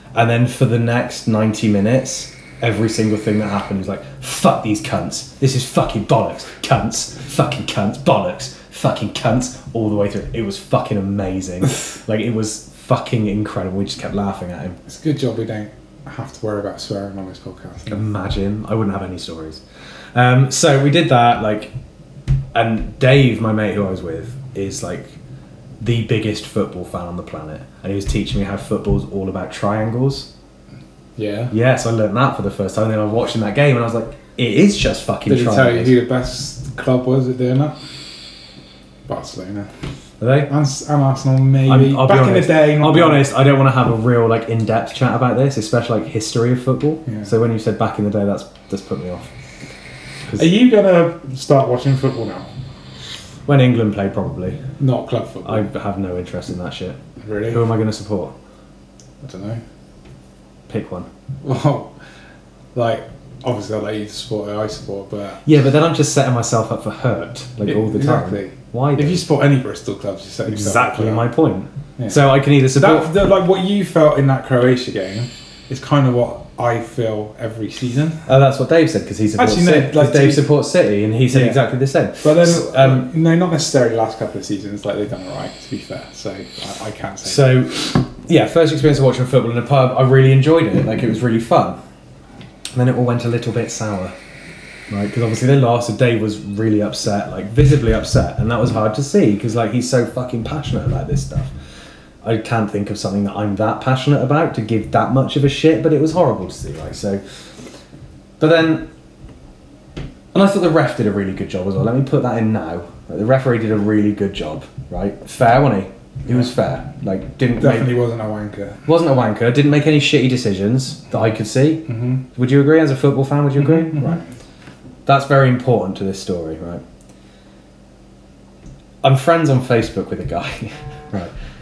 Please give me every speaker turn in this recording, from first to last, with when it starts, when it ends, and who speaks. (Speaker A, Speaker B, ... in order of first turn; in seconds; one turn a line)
Speaker A: 0.1-14.8
Speaker B: 14.9-18.0
Speaker A: 17.9-19.6
Speaker A: 20.1-21.7
Speaker A: 22.5-25.2
Speaker A: 25.8-30.3
Speaker B: 31.2-31.5
Speaker A: 31.5-36.0
Speaker B: 35.3-37.8
Speaker B: 39.1-39.7
Speaker A: 40.2-40.5
Speaker B: 40.5-43.3
Speaker A: 41.7-49.3
Speaker B: 47.1-47.3
Speaker B: 50.4-52.5
Speaker A: 53.5-54.6
Speaker B: 54.8-55.7
Speaker A: 55.5-58.3
Speaker B: 57.2-57.7
Speaker B: 59.2-59.6
Speaker A: 60.7-61.1
Speaker B: 61.4-61.9
Speaker B: 62.8-65.5
Speaker A: 65.5-69.2
Speaker B: 67.6-71.3
Speaker A: 70.5-73.1
Speaker B: 72.0-78.2
Speaker A: 78.3-83.1
Speaker B: 79.4-80.5
Speaker B: 81.3-81.6
Speaker B: 82.2-87.8
Speaker A: 87.2-91.8
Speaker A: 92.7-94.2
Speaker A: 94.9-101.5
Speaker A: 102.2-107.2
Speaker A: 108.4-108.9
Speaker A: 110.3-118.0
Speaker B: 117.6-118.8
Speaker A: 118.9-124.2
Speaker B: 121.9-122.2
Speaker B: 123.6-124.2
Speaker A: 125.1-126.8
Speaker A: 129.0-131.3